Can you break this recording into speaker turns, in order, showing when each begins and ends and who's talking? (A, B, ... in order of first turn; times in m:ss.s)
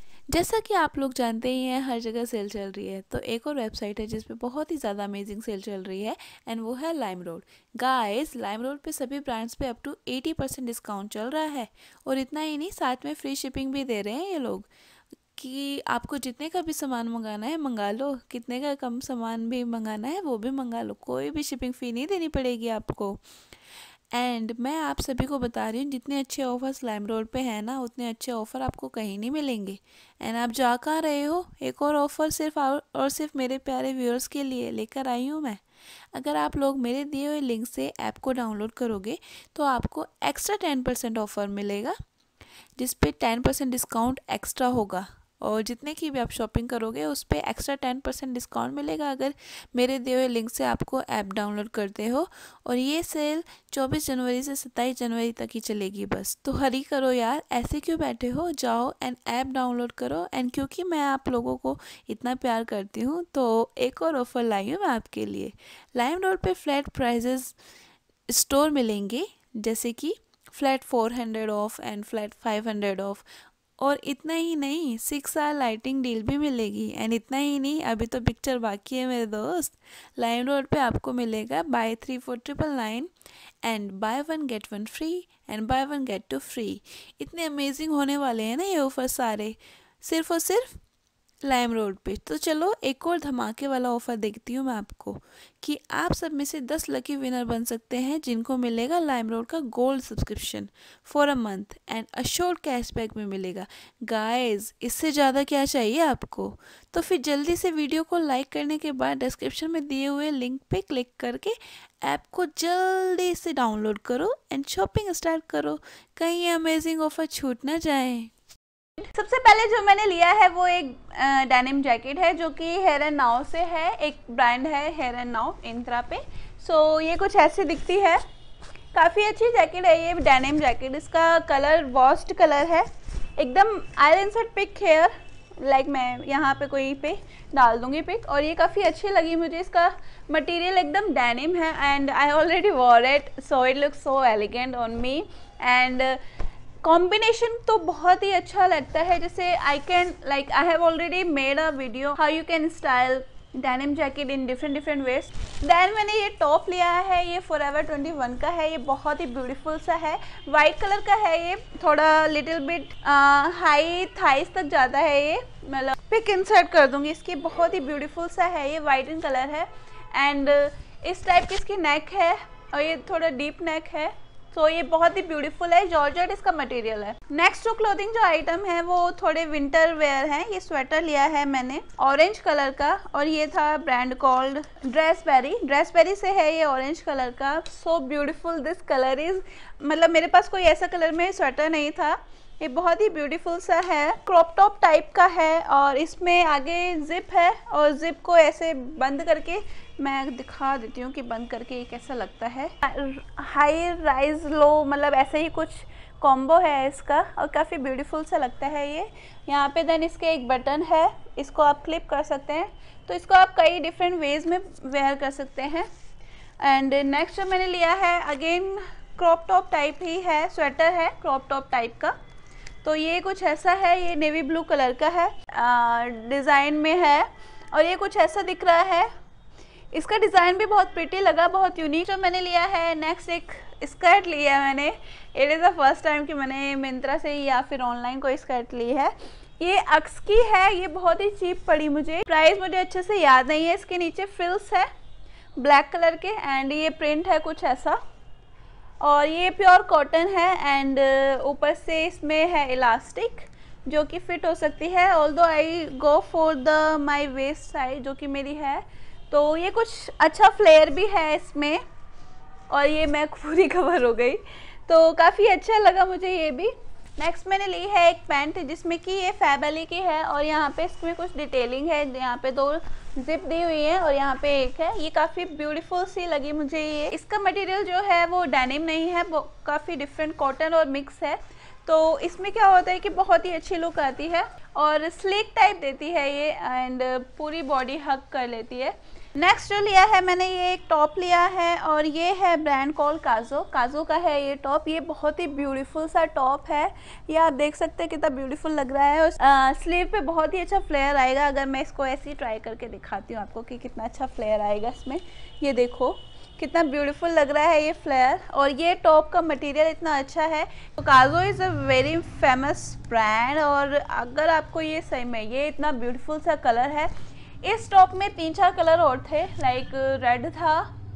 0:00.3-0:14.7 A
0:15.4-0:23.2 A
0:24.2-0:35.6 A
0:31.5-0:31.8 B
0:36.2-0:41.9 A
0:42.8-1:07.5 A
0:47.2-0:49.2 B
0:54.4-0:54.7 B
0:55.6-0:56.6 B
0:57.9-0:59.0 B
0:59.9-1:00.6 B
1:08.3-1:13.2 A
1:13.8-1:23.1 A
1:20.9-1:21.8 B
1:23.6-1:29.5 A
1:24.4-1:25.5 B
1:30.0-1:30.7 A
1:31.5-1:51.5 A
1:36.2-1:37.2 B
1:38.2-1:39.7 B
1:41.1-1:43.6 B
1:44.5-1:46.4 B
1:49.1-1:49.4 B
1:52.0-1:58.3 A
1:53.0-1:54.9 B
1:59.0-2:08.2 B
2:08.9-2:26.2 B
2:26.8-3:35.9 B
3:36.6-3:42.1 B
3:42.8-3:49.1 B
3:49.9-4:04.9 B
4:05.6-4:08.0 B
4:09.0-4:21.8 B
4:22.7-5:17.1 B
5:17.6-5:20.9 B